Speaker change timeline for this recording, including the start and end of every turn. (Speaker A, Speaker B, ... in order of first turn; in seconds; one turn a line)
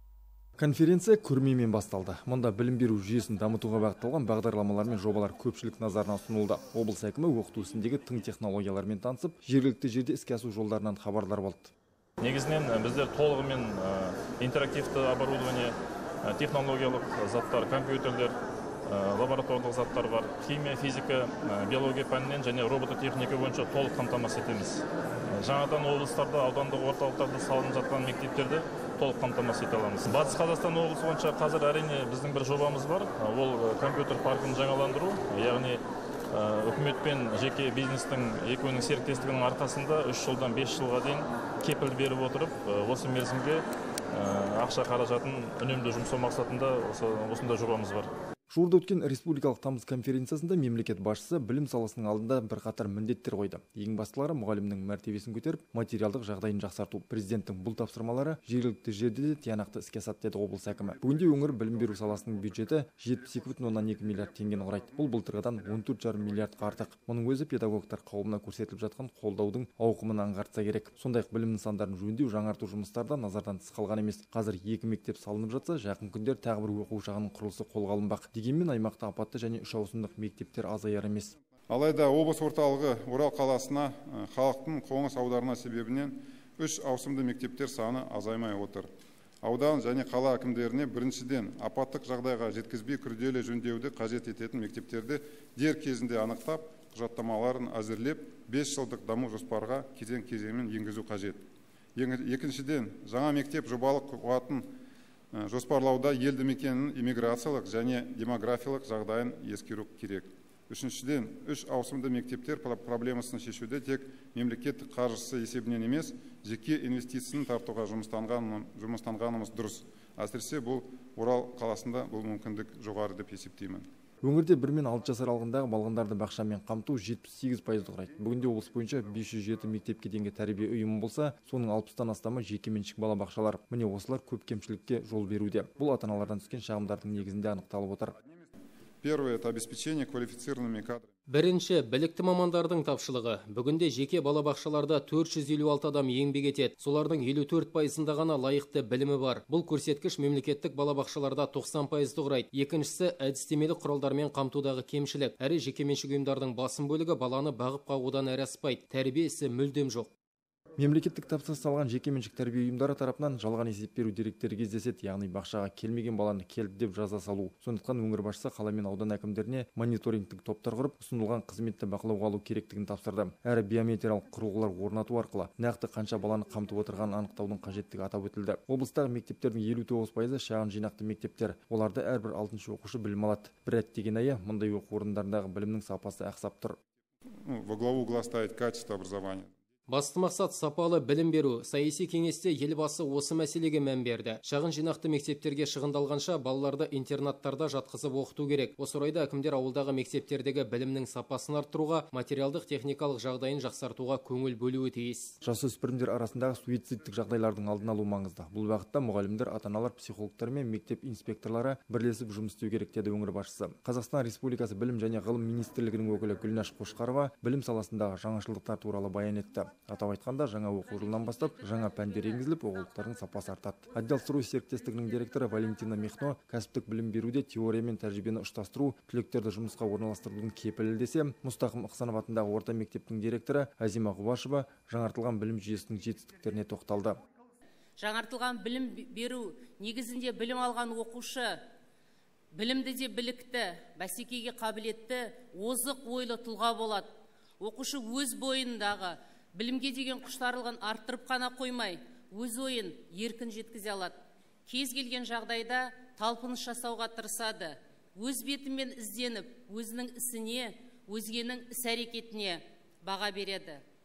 Speaker A: 0.6-11.7
Speaker B: 12.2-48.1
Speaker A: 48.5-81.3
Speaker C: 81.7-88.9
Speaker C: 89.4-101.4
Speaker C: 102.0-104.7
Speaker C: 105.3-123.8
Speaker A: 124.2-138.1
Speaker C: 139.0-141.1
Speaker D: 141.3-160.1
Speaker A: 160.8-186.8
Speaker C: 187.4-189.5
Speaker D: 189.9-205.3
Speaker A: 205.4-237.2
Speaker E: 238.0-241.5
Speaker E: 242.6-247.1
Speaker E: 247.6-254.1
Speaker E: 254.7-263.8